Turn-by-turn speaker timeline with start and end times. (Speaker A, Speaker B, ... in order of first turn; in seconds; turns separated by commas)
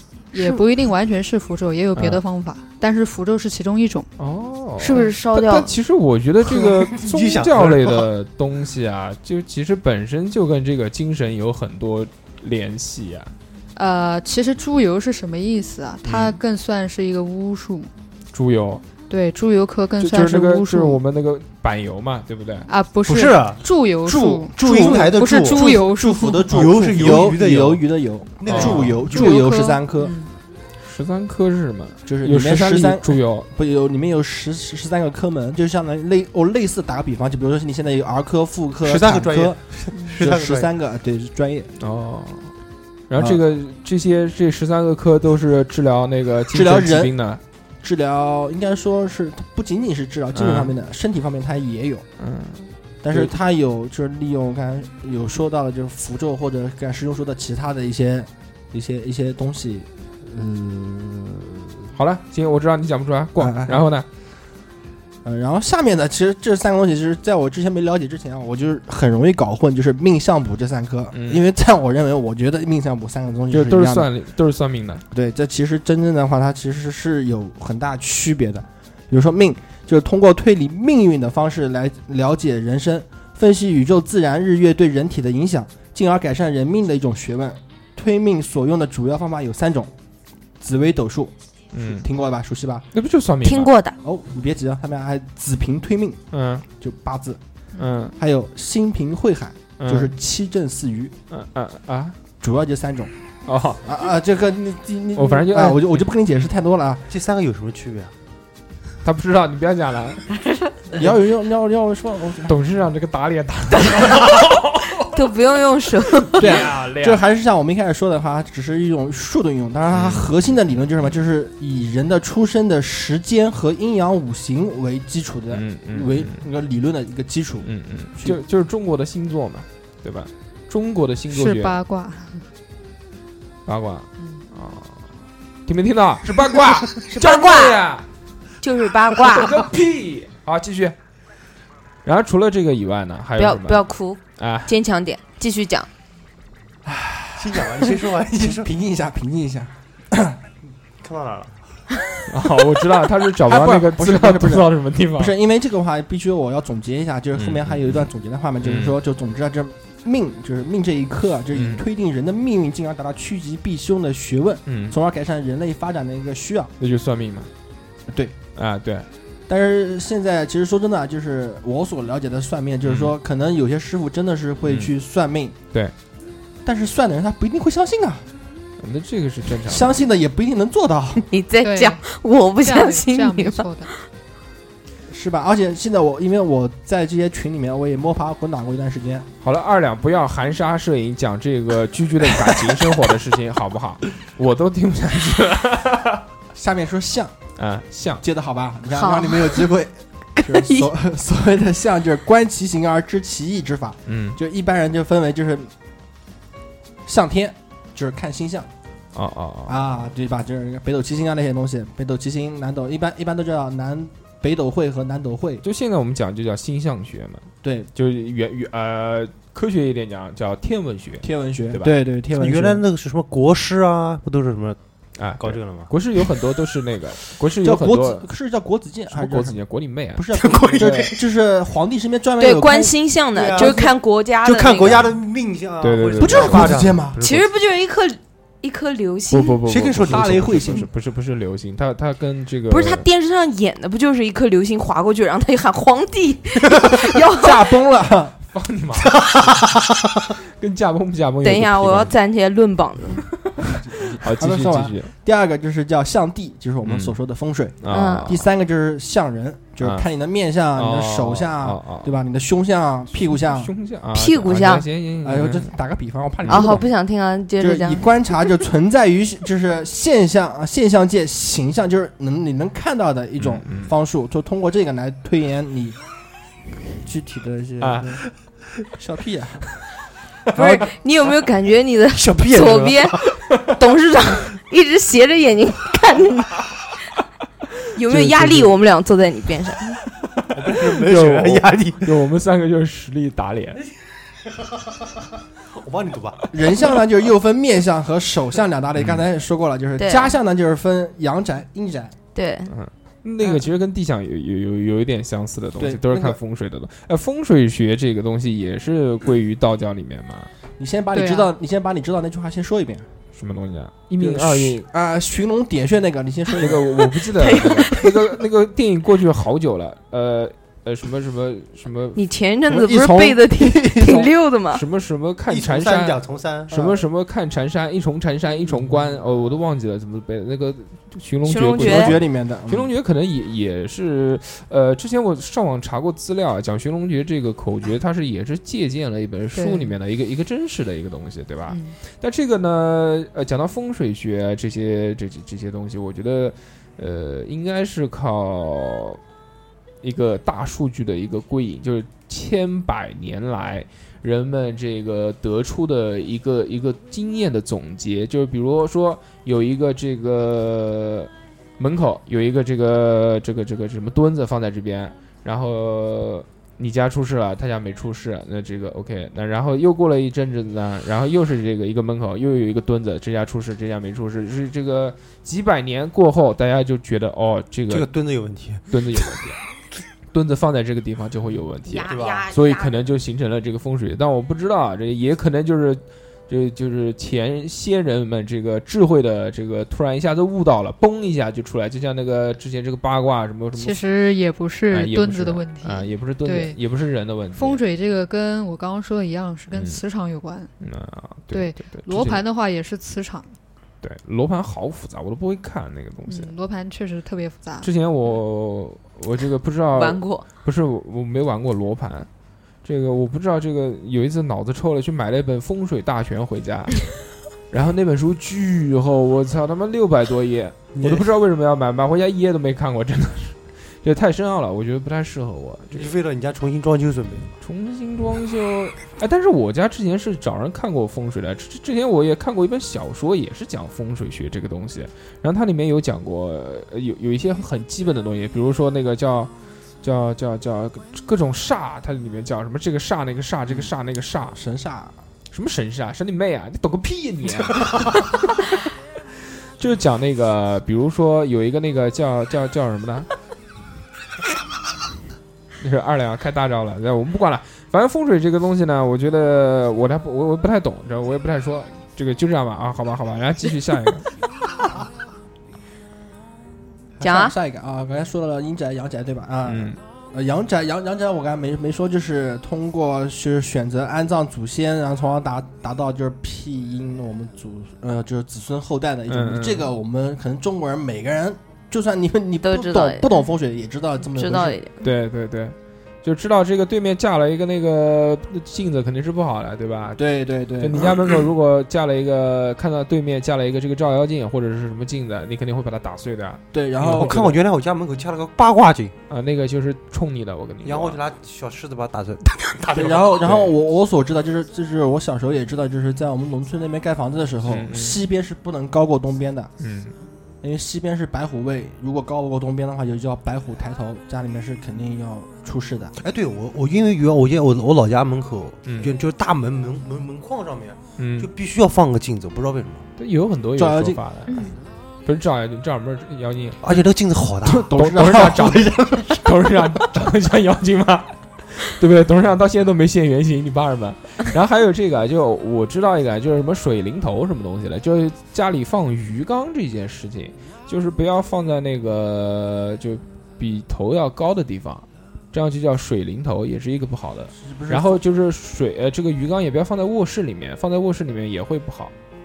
Speaker A: 0.3-4.1, Speaker B: 1.9-2.2, Speaker B: 4.2-13.3, Speaker C: 4.8-5.7, Speaker D: 6.5-8.1, Speaker A: 13.8-17.9, Speaker D: 16.1-16.4, Speaker B: 18.3-18.8, Speaker A: 19.1-21.0, Speaker B: 20.0-22.7, Speaker A: 22.7-26.4, Speaker D: 23.1-25.8, Speaker E: 24.6-30.1, Speaker D: 26.4-27.8, Speaker D: 28.4-29.3, Speaker B: 28.5-28.9, Speaker A: 29.1-30.3, Speaker B: 30.8-33.5, Speaker E: 32.1-39.6, Speaker D: 38.8-40.7, Speaker E: 40.2-41.7, Speaker B: 41.8-42.5, Speaker B: 43.1-47.4, Speaker E: 46.5-47.1, Speaker E: 47.8-52.0, Speaker B: 50.3-50.7, Speaker B: 52.2-53.3, Speaker E: 53.0-61.9, Speaker B: 61.9-64.1, Speaker E: 63.4-63.9, Speaker E: 65.2-74.1, Speaker B: 71.1-71.4, Speaker B: 73.5-75.0, Speaker E: 75.1-89.9, Speaker E: 90.6-92.8, Speaker B: 91.7-92.0, Speaker B: 92.9-93.7, Speaker C: 93.4-94.0, Speaker E: 94.0-96.2, Speaker B: 96.3-96.7, Speaker E: 96.8-97.4, Speaker B: 97.8-98.1, Speaker E: 98.2-101.1, Speaker B: 99.8-100.1, Speaker B: 101.3-102.2, Speaker E: 102.4-103.1, Speaker B: 103.5-103.8, Speaker E: 103.8-107.0, Speaker B: 105.1-106.1, Speaker D: 107.1-108.1, Speaker B: 109.0-110.2, Speaker E: 111.0-112.5, Speaker B: 112.5-115.0, Speaker C: 115.1-116.6, Speaker B: 116.3-117.2, Speaker E: 116.4-128.4, Speaker B: 119.9-120.3, Speaker B: 125.5-126.4, Speaker B: 127.6-131.7, Speaker A: 131.3-132.4, Speaker B: 133.7-135.0, Speaker B: 135.7-138.0, Speaker C: 137.1-137.8, Speaker C: 138.6-139.7, Speaker B: 139.2-140.9, Speaker B: 142.0-143.8, Speaker C: 143.4-145.9, Speaker B: 144.4-144.7, Speaker E: 146.8-150.4, Speaker D: 147.4-148.7, Speaker D: 151.0-151.8, Speaker B: 152.3-155.3, Speaker E: 153.4-166.7, Speaker B: 157.3-158.1, Speaker B: 158.6-159.0, Speaker B: 161.5-161.8, Speaker B: 164.7-164.9, Speaker B: 166.8-167.5, Speaker E: 168.1-168.3, Speaker B: 168.5-169.1, Speaker E: 169.5-175.6, Speaker B: 172.8-173.1, Speaker B: 174.7-174.9, Speaker E: 176.6-178.2, Speaker B: 178.8-180.0, Speaker E: 179.6-181.2, Speaker C: 181.3-183.7, Speaker A: 181.6-182.0, Speaker A: 182.6-183.9, Speaker E: 185.1-189.3, Speaker B: 189.4-196.2, Speaker E: 196.5-197.3, Speaker B: 197.6-198.2, Speaker E: 198.2-205.7, Speaker C: 198.9-199.7, Speaker C: 200.4-200.9, Speaker B: 204.1-204.4, Speaker E: 207.1-208.7, Speaker B: 209.1-209.8, Speaker E: 209.7-215.6, Speaker B: 215.6-221.9, Speaker E: 217.6-217.9, Speaker E: 221.2-222.8, Speaker D: 222.3-224.8, Speaker B: 225.2-228.2, Speaker D: 225.4-225.9, Speaker E: 227.6-229.6, Speaker B: 229.1-230.2, Speaker E: 230.1-232.9, Speaker D: 230.3-231.1, Speaker B: 230.8-231.1, Speaker C: 232.4-235.1, Speaker D: 233.3-237.0, Speaker B: 235.8-237.5, Speaker E: 236.2-237.2, Speaker C: 237.2-239.6, Speaker B: 239.3-243.1, Speaker D: 239.7-240.9, Speaker C: 242.7-247.7, Speaker E: 247.3-248.3, Speaker B: 248.5-249.2, Speaker D: 249.1-249.9, Speaker B: 250.6-252.1, Speaker C: 251.4-253.2, Speaker E: 253.7-263.7, Speaker B: 254.2-255.1, Speaker B: 256.8-257.1, Speaker B: 257.8-258.4, Speaker C: 257.9-258.3, Speaker B: 260.8-262.1, Speaker B: 263.2-265.7, Speaker C: 264.1-264.9, Speaker E: 265.2-266.9, Speaker B: 266.4-266.8, Speaker C: 266.5-268.1, Speaker E: 267.6-276.0, Speaker B: 273.4-273.9, Speaker E: 277.0-278.2, Speaker B: 277.8-278.2, Speaker E: 279.0-279.6, Speaker C: 280.5-286.6, Speaker D: 282.1-283.2, Speaker C: 287.9-289.9, Speaker B: 288.1-288.7, Speaker D: 290.5-292.1, Speaker B: 290.7-293.8, Speaker D: 295.7-296.5, Speaker E: 296.5-302.1, Speaker B: 299.0-299.2, Speaker C: 300.0-300.4, Speaker C: 302.3-302.7, Speaker B: 302.7-310.5, Speaker E: 305.8-306.4, Speaker E: 310.8-313.1, Speaker A: 311.1-311.5, Speaker B: 313.3-314.9, Speaker E: 314.2-317.0, Speaker B: 316.6-322.2, Speaker C: 317.4-318.1, Speaker C: 322.1-324.8, Speaker E: 322.7-324.3, Speaker B: 324.7-349.2, Speaker D: 325.5-326.7, Speaker E: 326.7-327.0, Speaker C: 331.4-332.1, Speaker E: 331.8-332.9, Speaker A: 339.5-339.9, Speaker A: 341.7-341.9, Speaker B: 350.0-378.1, Speaker D: 377.9-378.8, Speaker B: 378.9-379.6, Speaker B: 380.3-394.0, Speaker C: 381.9-383.1, Speaker D: 382.1-382.4, Speaker A: 393.8-396.8, Speaker B: 394.9-397.8, Speaker A: 397.6-400.7, Speaker B: 399.7-400.0, Speaker B: 400.8-402.4, Speaker A: 401.5-403.5, Speaker B: 404.0-406.5, Speaker A: 406.3-407.9, Speaker B: 407.8-412.3, Speaker C: 409.9-410.5, Speaker B: 412.8-417.1, Speaker B: 417.7-426.1, Speaker D: 420.9-421.3, Speaker D: 425.9-427.5, Speaker B: 427.6-439.5, Speaker B: 440.0-444.6, Speaker E: 444.5-445.1, Speaker B: 445.5-448.7, Speaker B: 449.8-453.3, Speaker B: 455.8-464.3, Speaker E: 467.2-484.8, Speaker C: 467.2-467.5, Speaker B: 469.7-470.0, Speaker B: 479.3-479.9, Speaker C: 482.6-483.3, Speaker C: 484.3-484.9, Speaker B: 485.0-490.2, Speaker E: 490.2-491.1, Speaker B: 490.8-497.5, Speaker E: 496.7-497.4, Speaker D: 497.1-499.1, Speaker B: 499.3-501.2, Speaker D: 500.8-503.5, Speaker E: 502.9-509.7, Speaker B: 503.4-503.7, Speaker B: 507.6-508.2, Speaker B: 509.8-510.1, Speaker E: 510.6-516.1, Speaker D: 516.2-523.0, Speaker B: 518.9-519.1, Speaker B: 521.2-521.5, Speaker B: 523.2-524.6, Speaker E: 523.8-524.2, Speaker B: 525.2-526.8, Speaker D: 526.8-527.9, Speaker E: 527.6-529.3, Speaker B: 528.0-552.1, Speaker E: 547.6-548.2